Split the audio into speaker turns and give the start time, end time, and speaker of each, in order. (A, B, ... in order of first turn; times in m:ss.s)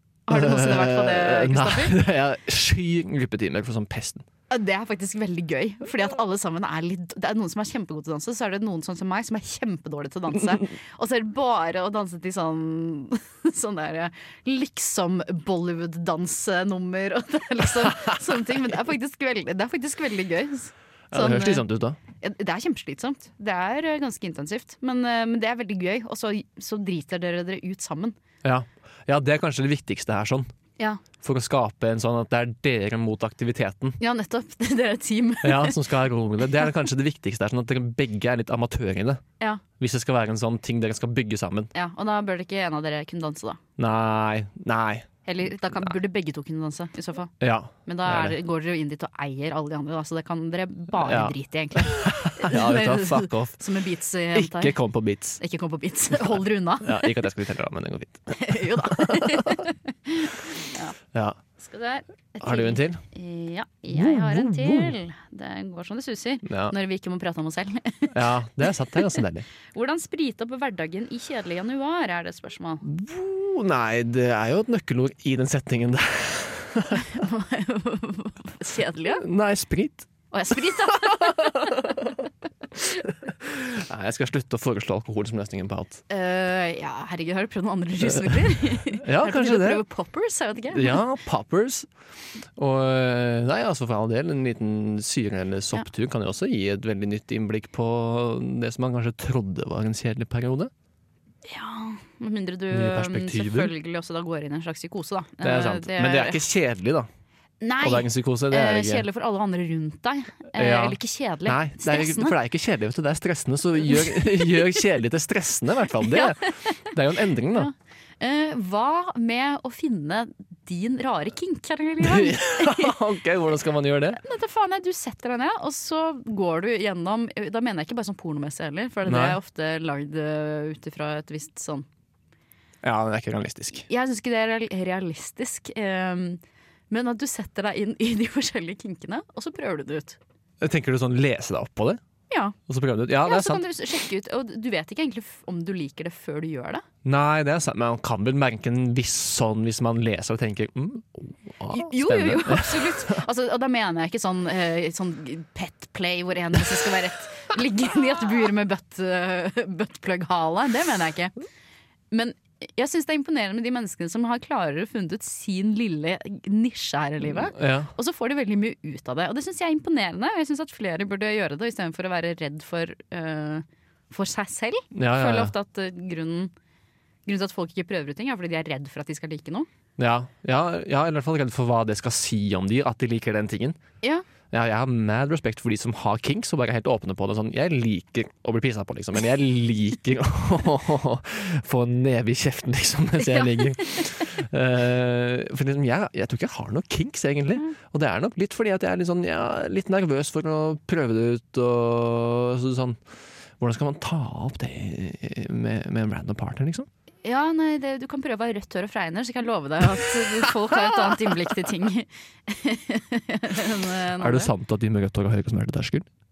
0:00.2-0:02.0 A
0:00.3-0:04.2 B
0:04.5-0:21.6 A
0:21.1-0:22.0 B
0:22.2-0:28.1 A
0:28.4-0:30.5 B
0:31.2-0:34.0 B
0:34.0-0:35.8 A
0:35.4-0:39.2 B
0:39.8-0:41.7 B
0:41.7-0:43.6 A
0:43.8-0:45.1 B
0:45.2-0:47.3 A
0:47.4-0:48.4 B
0:47.9-0:54.8 A
0:51.0-0:53.6 B
0:54.3-0:55.4 B
0:55.4-0:57.2 A
0:56.2-0:59.6 B
0:58.4-1:01.0 A
1:01.6-1:08.2 A
1:02.4-1:03.0 B
1:03.9-1:04.9 B
1:06.4-1:06.7 B
1:08.1-1:09.4 B
1:09.7-1:12.8 A
1:12.8-1:17.1 B
1:17.0-1:19.2 A
1:19.2-1:20.1 B
1:20.3-1:22.1 A
1:21.1-1:22.0 B
1:23.3-1:26.0 B
1:26.1-1:31.0 A
1:28.1-1:29.8 B
1:30.7-1:31.9 B
1:32.6-1:40.7 B
1:41.4-1:46.4 A
1:42.7-1:43.7 B
1:45.4-1:47.1 B
1:47.6-1:52.4 A
1:47.8-1:49.1 B
1:50.5-1:57.7 B
1:56.1-1:56.5 A
1:57.5-2:03.0 A
2:02.0-2:04.2 B
2:04.2-2:11.9 A
2:09.0-2:09.4 B
2:12.8-2:13.9 B
2:13.8-2:20.2 A
2:20.6-2:22.0 B
2:22.3-2:22.6 A
2:22.7-2:23.6 B
2:23.2-2:26.8 A
2:27.0-2:33.2 B
2:31.7-2:41.4 A
2:42.1-2:56.5 A
2:47.4-2:47.9 B
2:54.9-2:55.5 B
2:57.2-2:59.7 A
3:00.0-3:03.8 B
3:04.5-3:23.0 B
3:13.2-3:14.1 A
3:23.6-3:26.9 B
3:27.2-3:34.5 A
3:34.2-3:36.1 B